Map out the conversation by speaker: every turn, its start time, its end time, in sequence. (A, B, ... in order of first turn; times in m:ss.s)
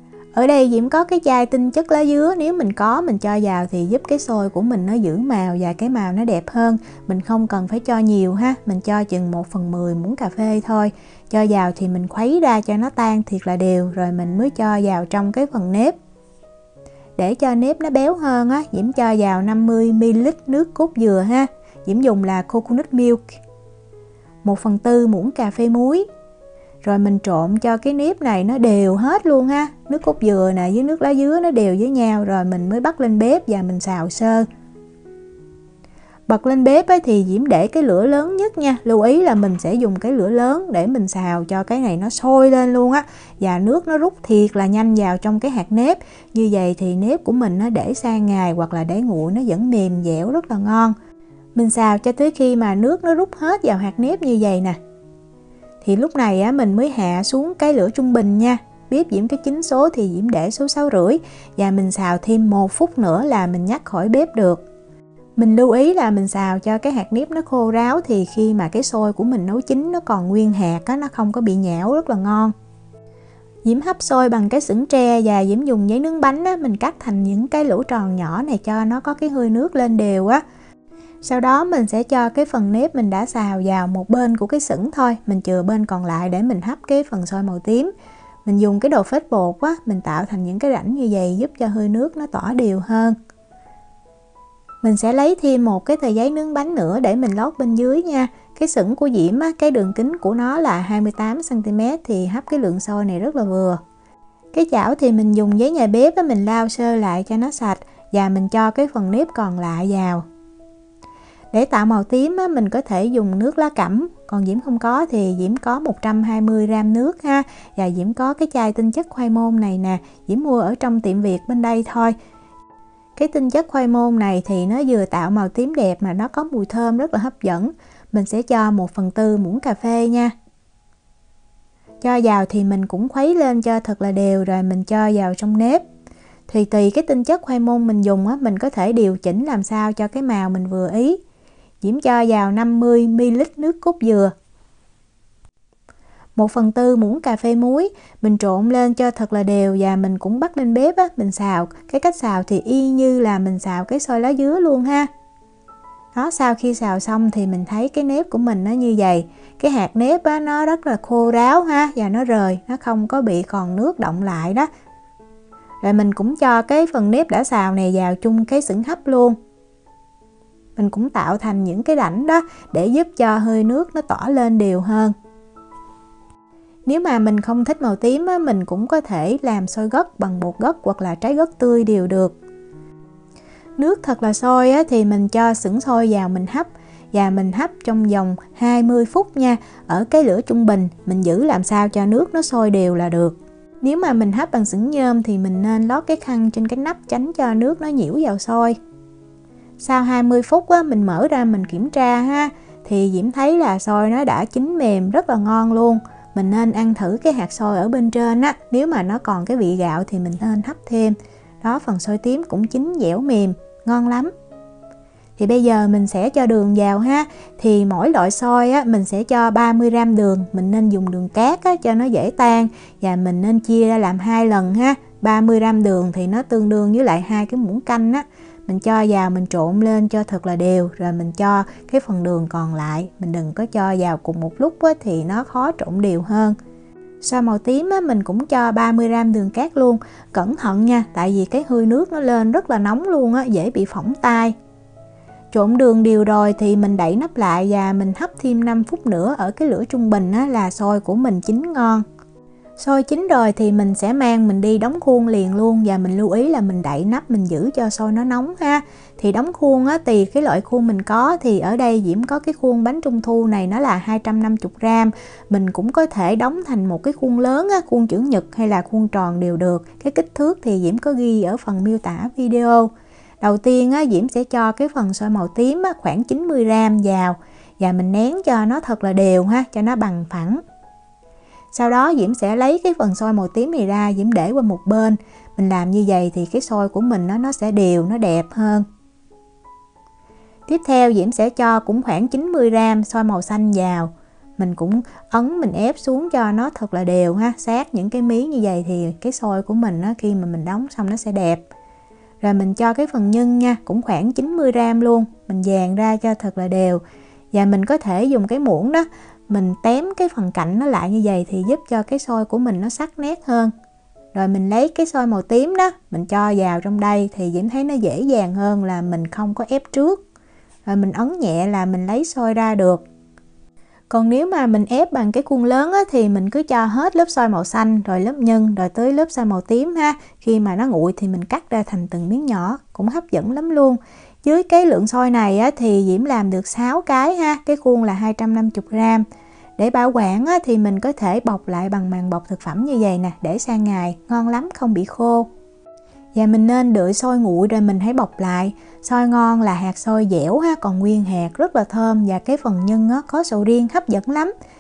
0:00.3-0:16.0 A
0:17.2-0:23.2 A
0:24.4-0:26.0 A
0:26.8-0:34.5 A
0:36.3-0:51.0 A
0:51.6-0:54.8 A
0:55.8-1:04.6 A
1:05.4-1:12.5 A
1:13.6-1:20.4 A
1:21.2-1:27.9 A
1:28.4-1:33.2 A
1:34.8-1:43.8 A
1:44.5-1:50.2 A
1:51.5-2:02.2 A
2:03.2-2:10.3 A
2:12.0-2:15.8 A
2:16.5-2:21.2 A
2:21.8-2:24.3 A
2:26.4-2:35.1 A
2:36.1-2:44.7 A
2:45.8-2:49.4 A
2:50.8-2:55.1 A
2:56.9-3:02.4 A
3:03.8-3:18.8 A
3:19.8-3:34.3 A
3:35.4-3:56.6 A
3:57.2-4:04.5 A
4:05.5-4:12.0 A
4:12.8-4:40.6 A
4:41.7-4:48.8 A
4:50.7-5:01.6 A
5:02.4-5:07.0 A
5:07.5-5:13.7 A
5:14.3-5:20.2 A
5:20.9-5:23.0 A
5:24.1-5:39.2 A
5:39.8-5:45.5 A
5:46.3-5:54.5 A